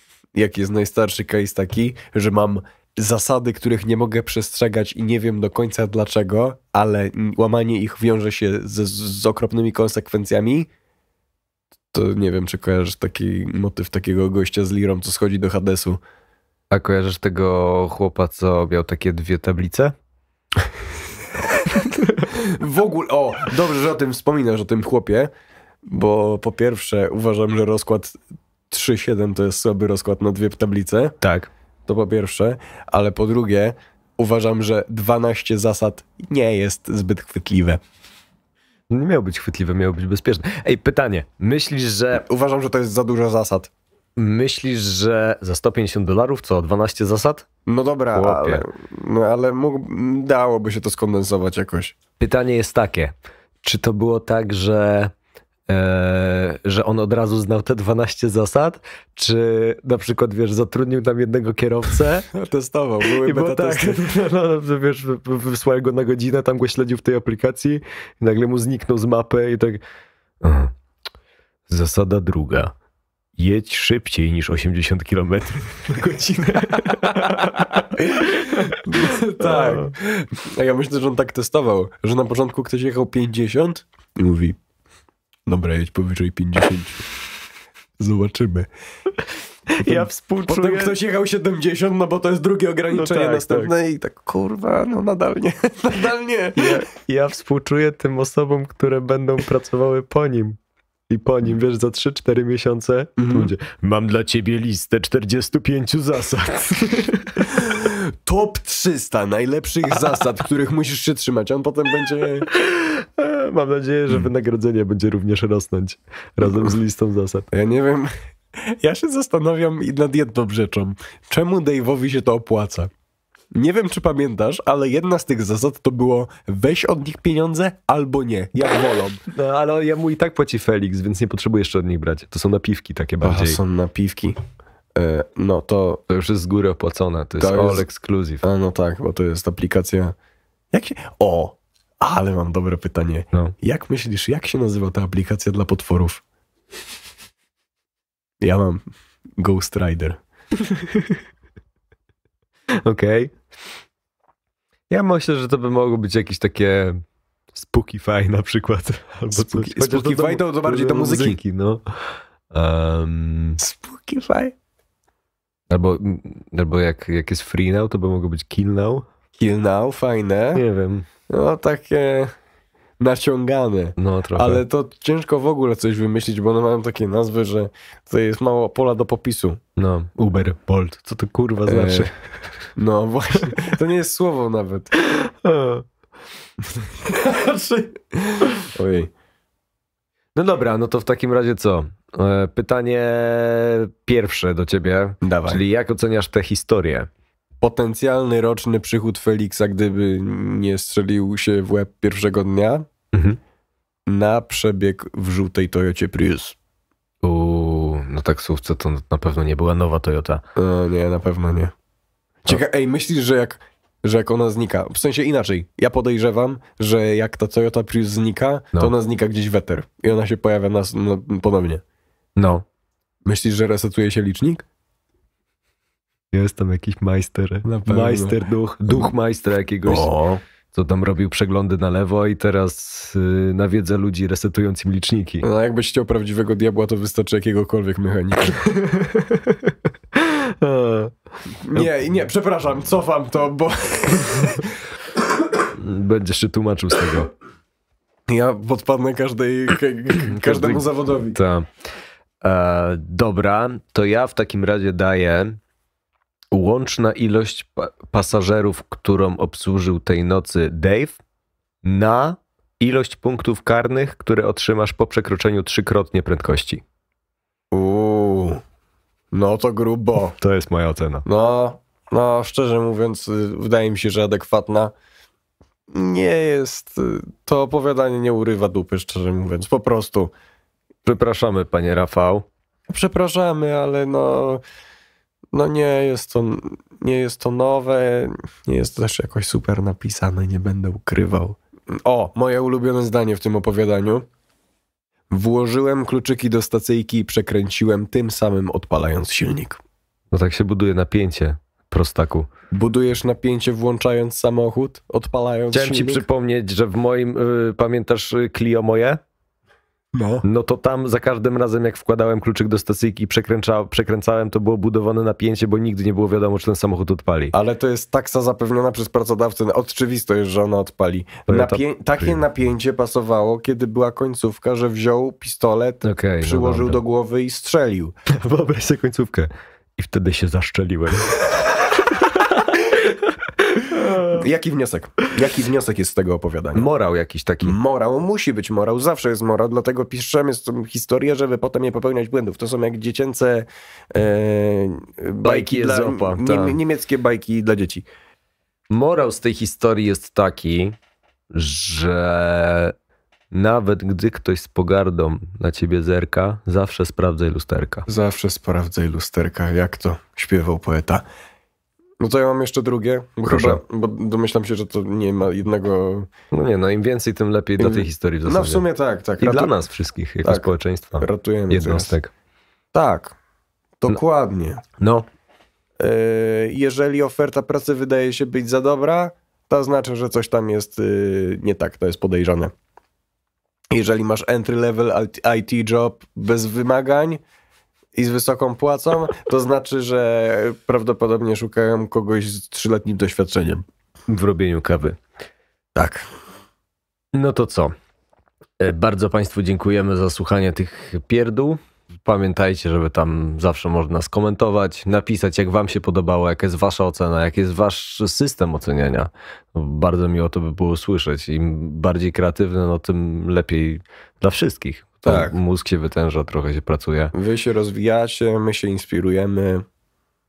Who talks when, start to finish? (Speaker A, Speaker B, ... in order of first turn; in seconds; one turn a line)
Speaker A: 0.3-10.7
Speaker A: 11.9-16.0
Speaker B: 16.7-19.9
Speaker A: 22.2-25.3
Speaker A: 25.9-28.1
Speaker A: 28.7-31.2
Speaker B: 31.2-31.5
Speaker A: 31.9-37.8
Speaker B: 38.9-42.2
Speaker A: 42.1-43.7
Speaker B: 44.2-47.5
Speaker A: 47.7-51.9
Speaker B: 48.1-48.6
Speaker B: 52.2-55.1
Speaker B: 55.7-62.3
Speaker A: 62.3-64.0
Speaker B: 63.1-69.8
Speaker B: 70.4-70.7
Speaker B: 71.7-72.7
Speaker B: 73.4-79.9
Speaker A: 77.8-84.6
Speaker A: 85.5-87.0
Speaker A: 88.0-88.7
Speaker B: 89.7-91.0
Speaker A: 89.8-96.8
Speaker B: 92.9-93.7
Speaker B: 96.6-100.6
Speaker B: 101.1-107.7
Speaker A: 103.2-103.5
Speaker A: 107.5-112.5
Speaker B: 112.5-117.5
Speaker A: 117.5-122.9
Speaker A: 123.5-129.2
Speaker B: 129.3-133.6
Speaker A: 133.2-134.4
Speaker A: 134.9-136.0
Speaker B: 136.1-138.4
Speaker A: 137.4-137.8
Speaker A: 138.4-140.1
Speaker A: 140.7-146.2
Speaker A: 148.4-148.8
Speaker A: 149.4-150.2
Speaker B: 150.6-151.2
Speaker B: 152.8-153.3
Speaker B: 154.9-157.0
Speaker B: 157.5-161.8
Speaker A: 159.3-161.4
Speaker B: 162.5-163.6
Speaker A: 163.6-164.5
Speaker B: 165.7-169.1
Speaker A: 169.4-170.6
Speaker B: 170.5-171.1
Speaker A: 171.3-172.3
Speaker A: 173.0-179.6
Speaker B: 174.0-174.6
Speaker B: 179.8-182.2
Speaker A: 181.7-182.1
Speaker A: 182.7-184.9
Speaker B: 185.0-185.8
Speaker A: 186.8-189.1
Speaker B: 190.3-197.1
Speaker A: 195.2-195.6
Speaker A: 197.6-202.9
Speaker B: 203.1-203.4
Speaker A: 204.1-206.6
Speaker B: 207.2-210.4
Speaker A: 210.6-211.7
Speaker A: 212.4-221.8
Speaker B: 222.4-222.6
Speaker A: 223.2-224.7
Speaker B: 226.3-235.4
Speaker A: 227.6-229.1
Speaker A: 229.8-230.3
Speaker A: 235.4-238.7
Speaker B: 238.7-241.1
Speaker A: 241.6-244.8
Speaker B: 245.7-247.3
Speaker A: 248.3-251.4
Speaker B: 250.3-251.7
Speaker B: 252.4-255.6
Speaker B: 256.5-261.2
Speaker B: 261.8-266.8
Speaker A: 267.7-268.6
Speaker A: 269.3-270.4
Speaker B: 270.4-271.2
Speaker A: 271.2-274.9
Speaker A: 275.9-280.3
Speaker B: 281.0-282.5
Speaker A: 282.9-284.6
Speaker A: 285.5-294.2
Speaker A: 295.3-299.8
Speaker B: 300.3-302.5
Speaker A: 302.7-306.2
Speaker B: 305.7-309.2
Speaker A: 310.1-310.4
Speaker B: 310.4-317.5
Speaker A: 317.5-328.1
Speaker B: 321.5-322.4
Speaker B: 326.0-327.0
Speaker B: 328.3-334.4
Speaker A: 334.2-336.9
Speaker B: 336.7-337.8
Speaker A: 337.6-348.0
Speaker B: 345.4-346.8
Speaker B: 348.9-351.0
Speaker B: 351.5-352.9
Speaker B: 353.5-358.1
Speaker A: 358.1-361.2
Speaker A: 362.2-366.3
Speaker B: 363.5-363.8
Speaker B: 366.5-368.8
Speaker A: 367.8-369.8
Speaker B: 369.4-372.3
Speaker A: 370.4-370.7
Speaker A: 371.2-372.1
Speaker A: 372.9-373.4
Speaker A: 374.0-374.8
Speaker B: 375.0-375.3
Speaker A: 376.0-382.7
Speaker A: 383.9-387.4
Speaker A: 388.1-393.8
Speaker B: 394.3-395.2
Speaker A: 395.9-396.2
Speaker B: 397.3-397.9
Speaker B: 398.8-417.3
Speaker A: 415.2-415.6
Speaker A: 417.3-419.9